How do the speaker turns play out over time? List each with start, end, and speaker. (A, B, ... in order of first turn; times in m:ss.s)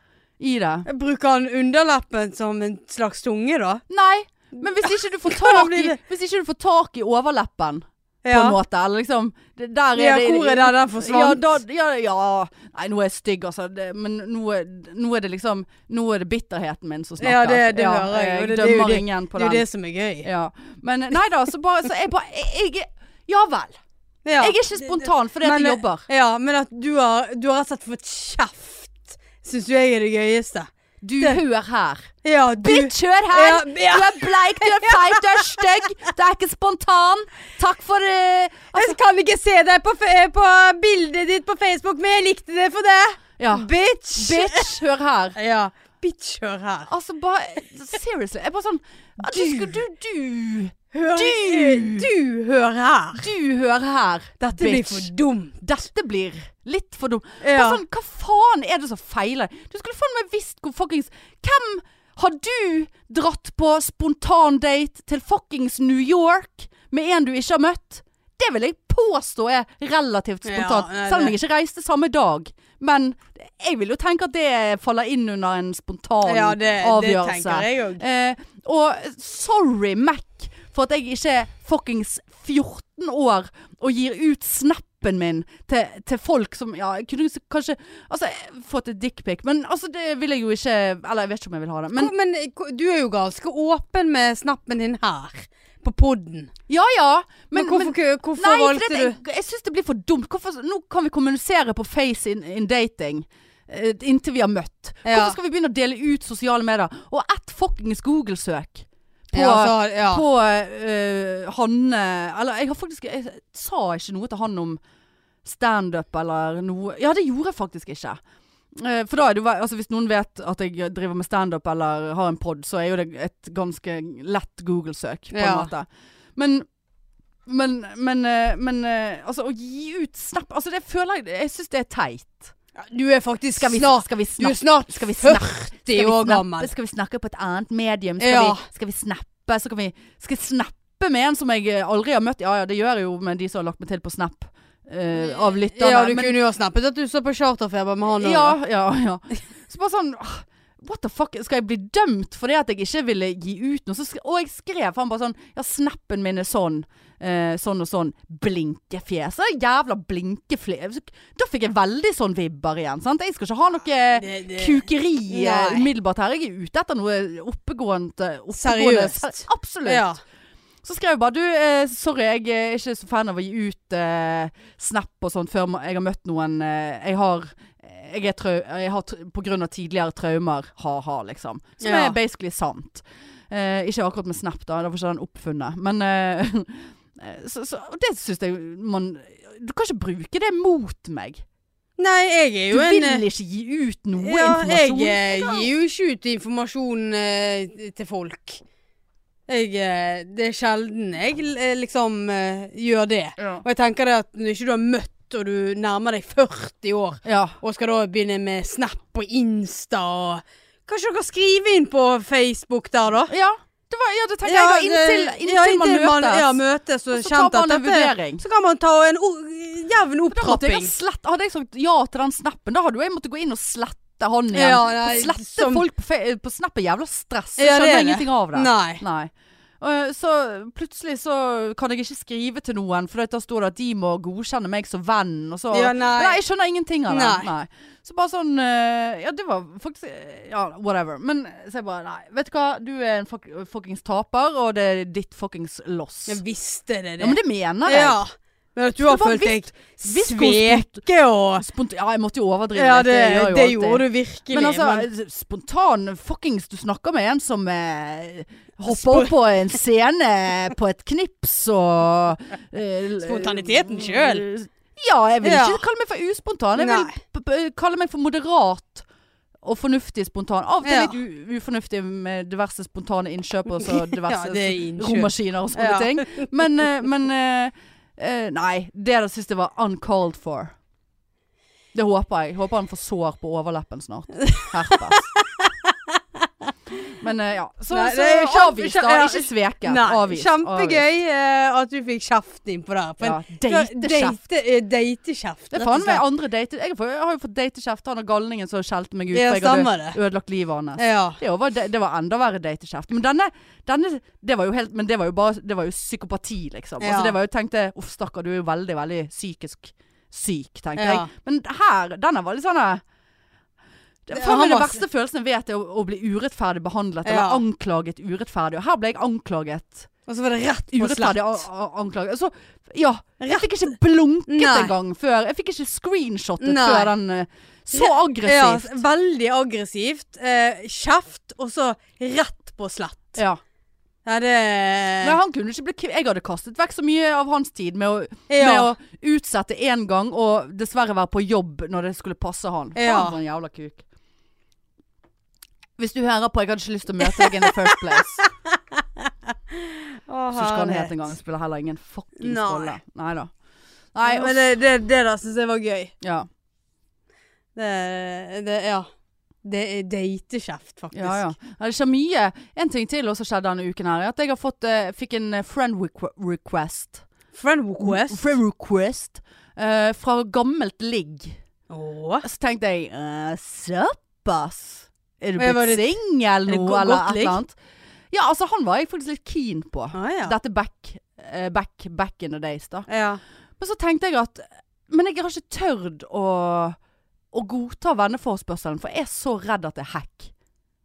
0:00.4-0:00.9 A
0:00.9-0:03.8 B
0:03.9-0:19.6 A
0:04.8-0:06.0 B
0:08.2-0:08.6 B
0:10.0-0:11.6 B
0:17.2-0:20.3 B
0:20.2-0:23.8 A
0:24.2-0:31.4 B
0:24.4-0:26.0 A
0:31.0-0:39.0 A
0:32.2-0:35.7 B
0:38.7-0:44.8 B
0:43.4-0:45.4 A
0:45.4-0:46.9 B
0:46.9-0:52.1 A
0:49.2-0:49.8 B
0:50.9-0:53.3 B
0:53.2-1:32.1 A
0:54.4-0:55.6 B
0:57.4-0:57.8 B
1:10.4-1:11.4 B
1:16.2-1:18.0 B
1:31.9-1:36.5 B
1:36.7-1:54.8 A
1:37.5-1:39.2 B
1:45.0-1:45.4 B
1:49.3-1:50.2 B
1:55.4-1:58.2 A
1:58.8-2:06.7 A
2:05.3-2:05.7 B
2:07.5-2:12.5 A
2:12.8-2:16.7 B
2:13.6-2:26.4 A
2:18.2-2:18.7 B
2:25.3-2:28.6 B
2:28.1-2:50.1 A
2:44.2-2:45.9 B
2:48.5-2:50.2 B
2:50.8-3:11.4 A
3:01.8-3:02.2 B
3:12.0-3:13.2 B
3:12.7-3:15.7 A
3:14.2-3:18.6 B
3:19.5-3:33.3 B
3:23.4-3:23.6 A
3:27.2-3:27.6 A
3:33.3-3:36.6 A
3:34.4-3:40.9 B
3:37.1-3:38.4 A
3:40.3-4:06.4 A
3:44.5-3:45.8 B
3:47.6-3:49.0 B
3:55.7-3:56.4 B
3:57.1-3:57.5 B
4:06.3-4:11.7 B
4:07.2-4:08.2 A
4:09.0-4:11.0 A
4:11.6-4:29.1 A
4:12.8-4:15.1 B
4:18.9-4:19.3 B
4:23.2-4:24.5 B
4:25.4-4:25.8 B
4:26.8-4:27.2 B
4:29.6-4:40.7 A
4:30.8-4:31.1 B
4:33.8-4:36.5 B
4:41.9-4:45.3 A
4:44.5-4:46.2 B
4:47.2-4:51.0 A
4:47.9-4:56.2 B
4:53.2-4:54.4 A
4:55.7-5:13.0 A
4:59.3-5:00.2 B
5:01.0-5:01.4 B
5:07.0-5:07.4 B
5:11.0-5:11.3 B
5:14.3-5:20.1 A
5:14.3-5:15.0 B
5:17.2-5:17.6 B
5:20.3-5:21.6 B
5:21.0-5:29.0 A
5:23.4-5:23.7 B
5:24.5-5:24.9 B
5:26.6-5:27.1 B
5:27.9-5:33.4 B
5:34.2-5:35.4 B
5:35.2-5:44.0 A
5:38.5-5:38.9 B
5:43.0-5:43.4 B
5:46.0-5:48.4 A
5:47.3-5:51.2 B
5:50.5-5:53.5 A
5:52.4-5:53.0 B
5:54.2-5:54.7 A
5:54.2-5:56.1 B
5:56.2-5:56.5 A
5:57.8-5:59.1 B
5:59.6-6:01.5 B
6:01.1-6:07.2 A
6:07.5-6:08.4 B
6:08.0-6:11.6 A
6:11.9-6:12.4 B
6:12.4-6:17.8 A
6:15.6-6:16.2 B
6:16.7-6:17.6 B
6:18.3-6:23.1 A
6:20.2-6:20.6 B
6:23.1-6:23.4 B
6:23.8-6:27.0 A
6:27.5-6:30.5 A